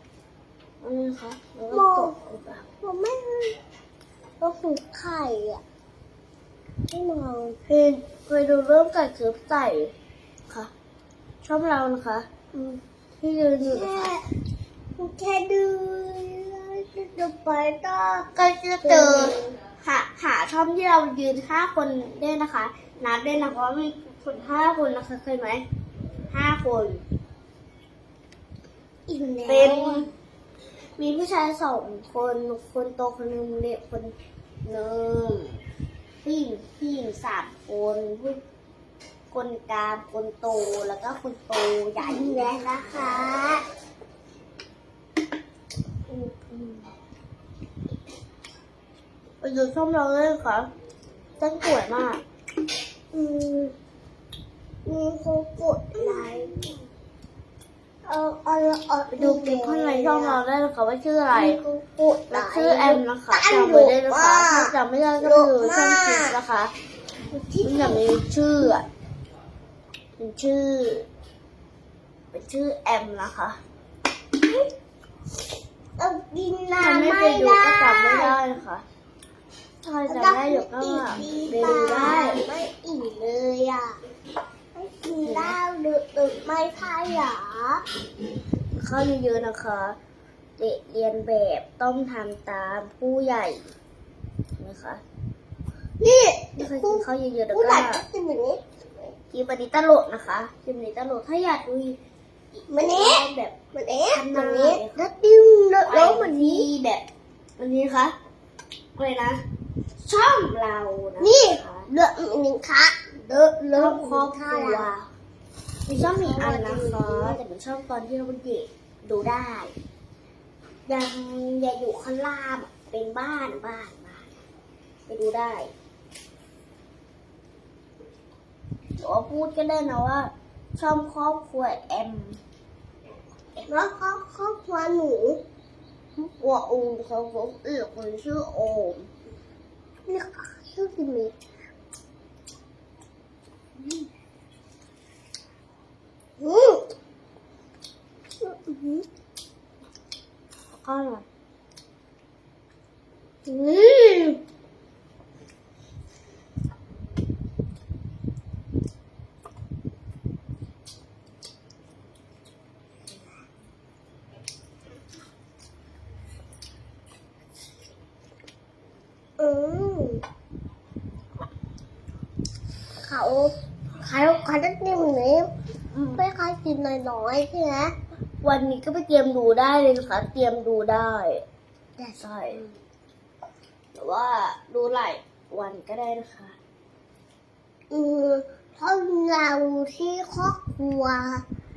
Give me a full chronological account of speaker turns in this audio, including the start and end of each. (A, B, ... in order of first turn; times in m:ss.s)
0:00.8-0:02.6 A
0:01.7-0:02.1 B
0:02.8-0:03.6 B
0:04.4-0:05.6 B
0:06.9-0:07.6 B
0:07.7-0:09.9 A
0:11.4-0:12.3 A
0:12.5-0:12.8 B
0:13.2-0:14.1 A
0:13.6-0:14.2 B
0:15.0-0:18.3 B
0:18.4-0:25.6 A
0:18.8-0:19.6 B
0:26.3-0:27.0 A
0:29.1-0:30.1 B
0:29.5-0:30.1 A
0:31.0-0:34.1 A
0:34.6-0:35.6 A
0:36.2-0:38.4 A
0:39.3-0:42.5 A
0:42.0-0:43.6 B
0:46.1-0:46.9 B
0:49.4-0:50.7 A
0:51.4-0:52.2 A
0:53.1-0:53.7 B
0:54.8-0:56.8 B
0:56.0-0:56.3 A
0:58.0-1:00.4 B
0:59.1-1:01.6 A
1:01.3-1:06.4 B
1:02.3-1:06.7 A
1:07.3-1:08.0 B
1:07.6-1:08.9 A
1:10.2-1:11.1 A
1:12.3-1:13.6 A
1:16.0-1:18.4 B
1:16.8-1:18.8 A
1:19.8-1:22.4 A
1:20.1-1:24.0 B
1:24.7-1:27.8 B
1:25.2-1:25.6 A
1:28.7-1:30.0 A
1:30.6-1:33.7 A
1:34.6-1:35.0 A
1:36.0-1:38.6 B
1:36.6-1:38.0 A
1:39.3-1:42.0 A
1:42.6-1:43.6 A
1:42.7-1:46.7 B
1:44.1-1:45.1 A
1:45.8-1:47.1 A
1:47.6-1:48.2 A
1:49.0-1:49.4 A
1:50.0-1:51.9 A
1:51.2-1:54.9 B
1:53.7-1:55.1 A
1:55.9-1:57.4 B
1:55.9-1:59.7 A
2:00.9-2:04.3 A
2:05.1-2:05.7 A
2:09.0-2:12.4 A
2:13.7-2:15.4 B
2:16.2-2:19.1 A
2:20.1-2:21.3 B
2:26.4-2:26.9 B
2:28.4-2:29.1 B
2:30.7-2:31.2 A
2:33.5-2:34.4 B
2:49.4-2:50.2 B
2:53.0-2:55.5 B
2:55.9-2:56.2 A
2:56.2-2:57.9 B
2:58.4-3:01.4 A
3:02.2-3:02.6 A
3:04.0-3:06.6 A
3:07.9-3:11.4 B